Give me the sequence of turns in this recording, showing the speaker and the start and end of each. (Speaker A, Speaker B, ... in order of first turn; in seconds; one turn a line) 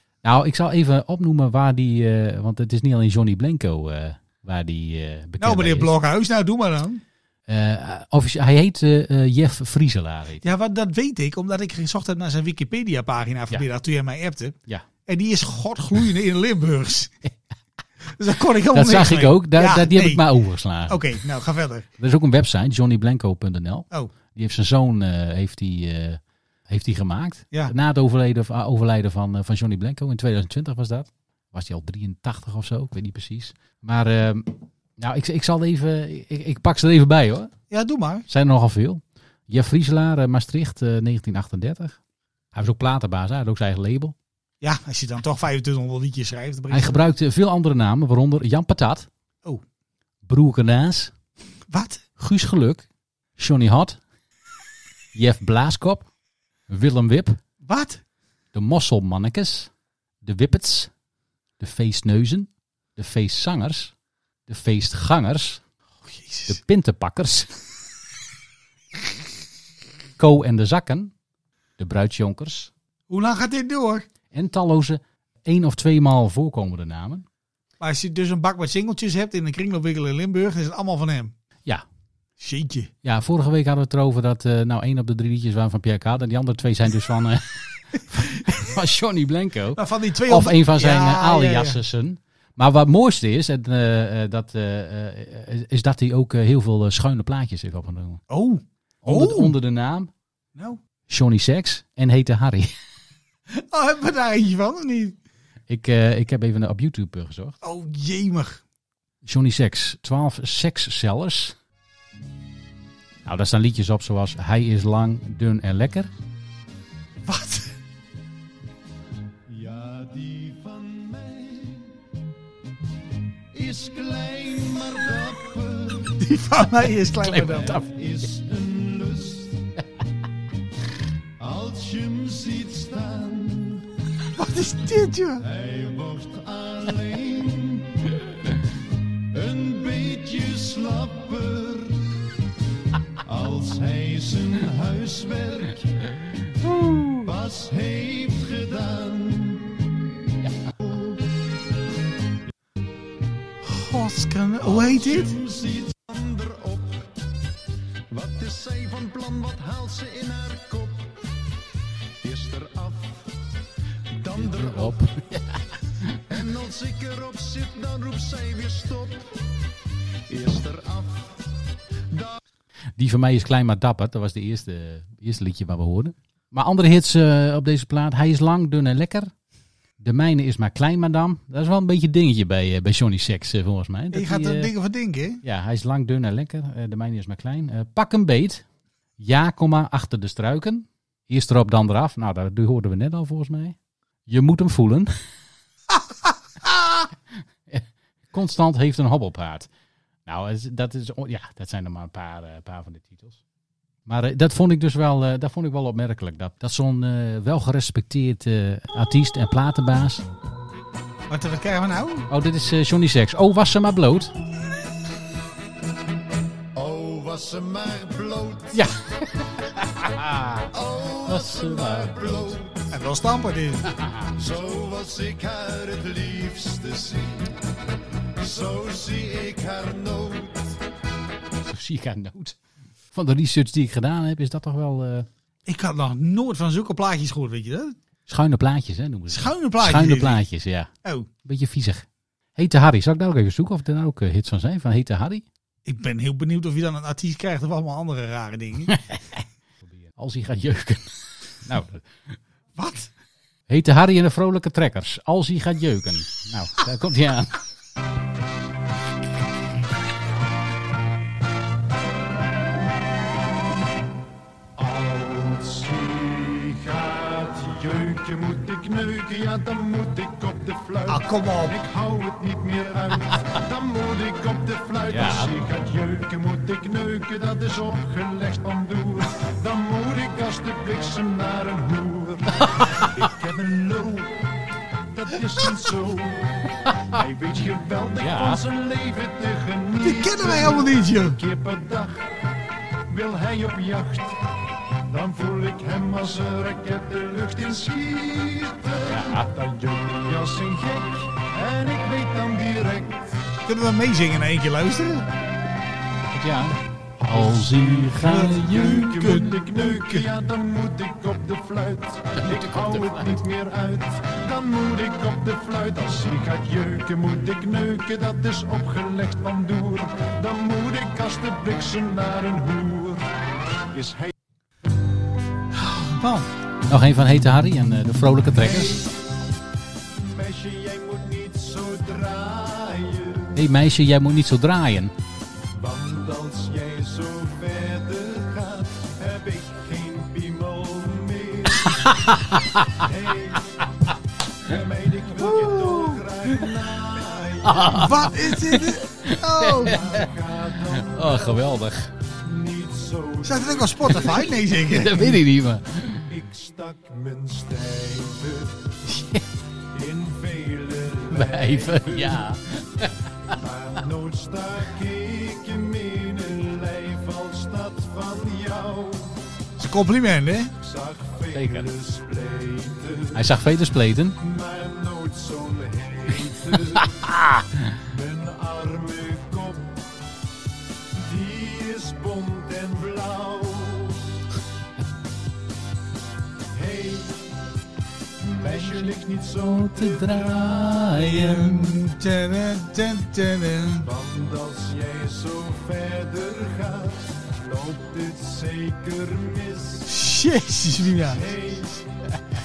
Speaker A: 0.2-5.9
Speaker B: 5.4-7.0
Speaker A: 7.5-10.4
Speaker B: 10.4-17.1
Speaker B: 18.1-20.2
Speaker A: 18.7-21.1
Speaker B: 20.9-21.9
Speaker A: 22.0-37.5
Speaker B: 37.7-38.3
Speaker A: 38.3-42.0
Speaker A: 42.5-44.1
Speaker B: 44.6-47.1
Speaker A: 46.7-49.1
Speaker A: 50.3-51.1
Speaker B: 51.7-52.0
Speaker A: 52.2-52.9
Speaker A: 53.4-54.0
Speaker A: 55.1-56.1
Speaker A: 56.7-57.4
Speaker B: 57.6-58.0
Speaker A: 58.5-59.7
Speaker A: 60.2-60.9
Speaker A: 61.6-63.9
Speaker A: 64.5-65.6
Speaker B: 66.1-66.6
Speaker A: 66.5-67.5
Speaker A: 70.2-71.1
Speaker A: 71.8-72.7
Speaker B: 73.1-74.1
Speaker A: 74.3-77.3
Speaker B: 77.8-81.3
Speaker B: 82.4-82.9
Speaker A: 83.0-98.2
Speaker B: 89.8-91.8
Speaker B: 98.3-99.6
Speaker A: 99.0-100.1
Speaker A: 101.1-102.7
Speaker B: 103.5-105.2
Speaker A: 105.7-107.5
Speaker B: 107.6-108.6
Speaker A: 109.2-111.5
Speaker A: 113.3-116.1
Speaker B: 117.3-117.7
Speaker C: 119.5-121.9
Speaker C: 123.5-126.2
Speaker B: 126.2-127.8
Speaker A: 127.2-127.9
Speaker C: 127.8-129.7
Speaker C: 131.4-133.8
Speaker B: 134.3-135.4
Speaker C: 135.4-138.2
Speaker C: 139.3-142.1
Speaker C: 143.2-146.1
Speaker A: 146.6-147.2
Speaker C: 147.2-149.8
Speaker C: 150.8-151.2
Speaker B: 153.6-155.4
Speaker C: 154.7-157.1
Speaker C: 158.1-161.2
Speaker C: 162.2-163.3
Speaker C: 164.1-165.0
Speaker A: 164.3-166.2
Speaker C: 166.3-169.4
Speaker C: 170.3-171.4
Speaker C: 172.1-172.4
Speaker A: 173.0-179.3
Speaker A: 180.0-184.7
Speaker B: 184.1-185.4
Speaker A: 185.4-188.6
Speaker A: 189.2-193.8
Speaker A: 194.3-195.1
Speaker B: 196.6-196.9
Speaker A: 197.7-199.7
Speaker A: 200.3-203.4
Speaker A: 204.1-210.2
Speaker B: 211.3-212.3
Speaker A: 212.3-214.3
Speaker C: 216.8-218.8
Speaker A: 218.7-220.7
Speaker C: 220.7-222.9
Speaker A: 221.3-222.3
Speaker B: 222.9-223.9
Speaker A: 223.9-224.3
Speaker C: 224.3-227.5
Speaker C: 228.4-230.8
Speaker A: 231.6-232.6
Speaker A: 233.1-235.3
Speaker B: 235.7-238.0
Speaker A: 238.3-240.9
Speaker B: 239.3-240.4
Speaker B: 241.0-241.3
Speaker A: 241.4-245.4
Speaker B: 245.8-248.9
Speaker A: 248.9-249.4
Speaker A: 250.1-251.1
Speaker A: 251.6-252.4
Speaker B: 252.8-253.1
Speaker A: 253.7-257.5
Speaker C: 264.8-292.4
Speaker B: 271.1-271.8
Speaker A: 275.1-275.5
Speaker A: 282.7-283.1
Speaker A: 288.2-288.6
Speaker B: 290.0-291.4
Speaker C: 293.1-294.4
Speaker C: 295.1-303.4
Speaker A: 299.1-299.5
Speaker B: 303.7-305.3
Speaker A: 306.3-309.3
Speaker B: 308.1-310.3
Speaker C: 308.5-323.3
Speaker A: 312.4-313.4
Speaker C: 323.9-324.3
Speaker B: 325.9-326.5
Speaker A: 326.9-329.1
Speaker C: 330.2-333.5
Speaker A: 333.6-335.1
Speaker C: 335.7-342.1
Speaker A: 341.8-343.0
Speaker C: 343.0-343.8
Speaker C: 344.6-348.5
Speaker B: 345.5-346.2
Speaker A: 347.6-350.3
Speaker B: 347.9-350.0
Speaker C: 349.8-351.6
Speaker A: 350.9-352.1
Speaker C: 352.4-354.4
Speaker B: 353.4-355.4
Speaker A: 354.8-356.3
Speaker C: 356.3-358.8
Speaker A: 359.1-359.4
Speaker C: 359.9-362.6
Speaker A: 361.3-363.6
Speaker C: 363.5-369.4
Speaker B: 369.8-370.7
Speaker C: 370.8-373.4
Speaker A: 371.5-371.9
Speaker A: 373.4-374.4
Speaker C: 374.4-377.2
Speaker A: 377.0-377.9
Speaker C: 378.0-380.0
Speaker C: 381.1-384.2
Speaker C: 386.7-387.4
Speaker C: 388.4-391.2
Speaker A: 388.6-391.9
Speaker B: 391.2-394.1
Speaker C: 394.0-400.1
Speaker B: 400.1-401.4
Speaker C: 401.3-402.1